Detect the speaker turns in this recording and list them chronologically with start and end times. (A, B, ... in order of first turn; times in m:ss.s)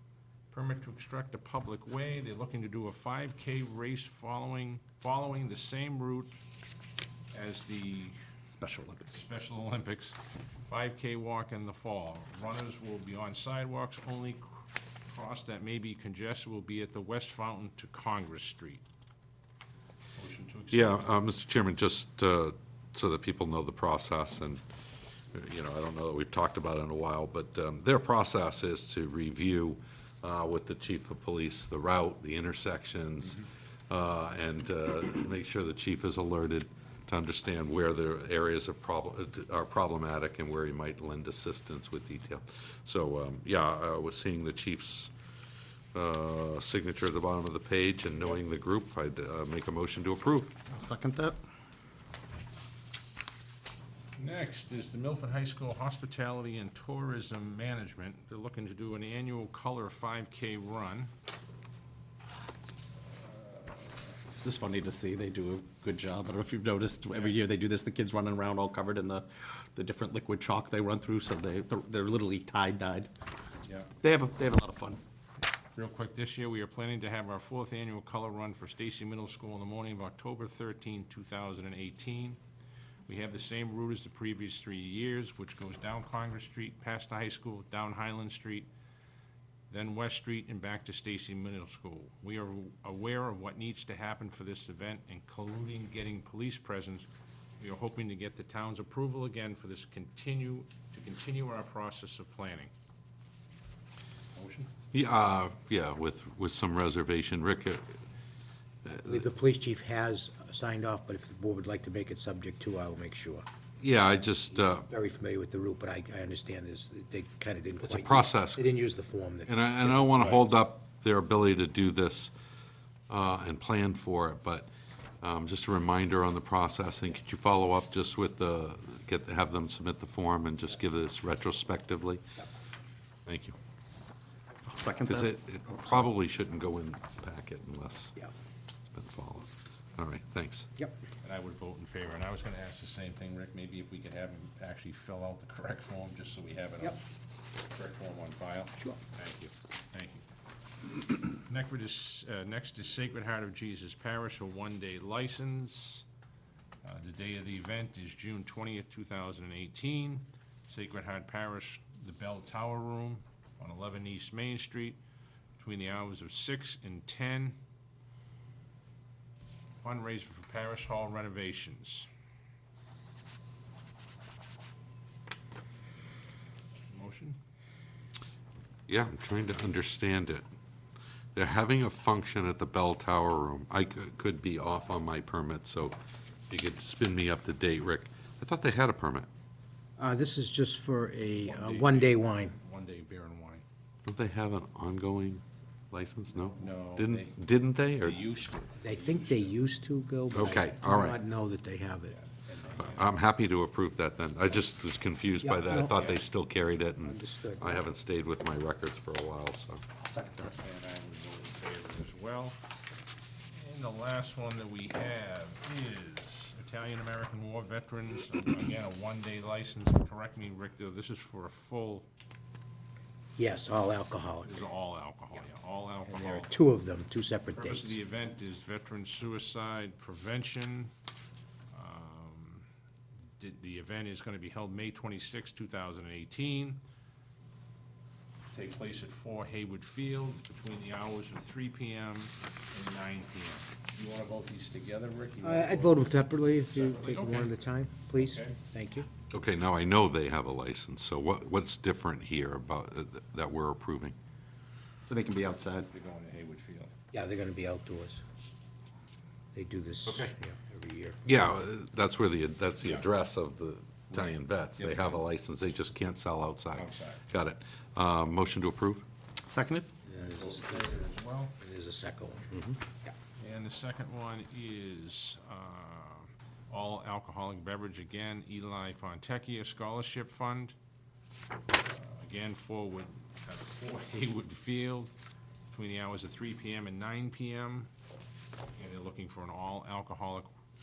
0:00.5-0:06.3 A
0:07.3-0:08.2 A
0:08.5-0:09.1 B
0:09.0-0:18.8 A
0:20.2-0:21.1 A
0:20.7-0:24.6 C
0:25.3-0:45.1 C
0:45.9-0:50.6 C
0:50.7-0:51.4 B
0:54.2-1:01.1 A
1:04.3-1:13.1 B
1:07.1-1:07.4 A
1:13.7-1:13.9 A
1:14.0-1:15.0 B
1:15.8-1:22.4 A
1:23.1-1:28.7 A
1:29.7-1:37.1 A
1:37.6-1:42.7 A
1:44.4-1:44.7 A
1:44.9-1:47.9 C
1:48.8-1:49.2 C
1:49.0-1:53.4 D
1:53.8-1:54.9 C
1:54.5-2:00.4 D
1:57.8-1:58.7 C
1:59.5-2:02.3 C
2:03.1-2:04.7 C
2:05.2-2:12.2 C
2:13.2-2:13.6 C
2:14.7-2:16.1 B
2:15.1-2:18.2 C
2:18.9-2:20.7 C
2:21.2-2:27.0 A
2:27.7-2:30.2 A
2:31.3-2:36.1 A
2:36.8-2:45.0 A
2:45.6-2:47.6 A
2:49.8-2:52.1 A
2:56.9-2:57.4 A
2:58.9-3:00.5 C
3:01.3-3:06.0 C
3:06.5-3:09.3 C
3:10.0-3:12.6 D
3:11.4-3:13.6 A
3:14.0-3:18.2 C
3:16.6-3:17.4 A
3:18.0-3:19.7 A
3:18.8-3:22.2 D
3:20.3-3:20.7 A
3:20.3-3:21.2 C
3:22.1-3:23.1 A
3:22.8-3:29.8 C
3:25.4-3:26.1 D
3:25.9-3:26.2 A
3:27.0-3:27.9 D
3:30.0-3:30.6 B
3:30.6-3:32.6 A
3:33.5-3:42.1 A
3:43.4-3:44.6 D
3:44.4-3:46.5 A
3:46.1-3:48.0 D
3:47.6-3:50.9 A
3:51.7-3:52.7 A
3:53.4-3:56.8 A
3:58.5-4:06.1 A
4:05.4-4:09.1 D
4:06.7-4:07.6 A
4:08.2-4:08.6 A
4:09.3-4:14.2 C
4:15.1-4:15.9 B
4:15.9-4:17.0 A
4:17.1-4:18.2 D
4:19.6-4:21.2 D
4:20.1-4:20.3 C
4:21.2-4:29.1 C
4:24.1-4:25.2 A
4:26.8-4:27.2 A
4:29.5-4:29.9 B
4:30.1-4:31.6 A
4:30.1-4:31.0 D
4:31.6-4:33.1 D
4:33.4-4:40.8 A
4:41.8-4:45.1 A
4:45.7-4:47.9 A
4:48.8-4:50.5 A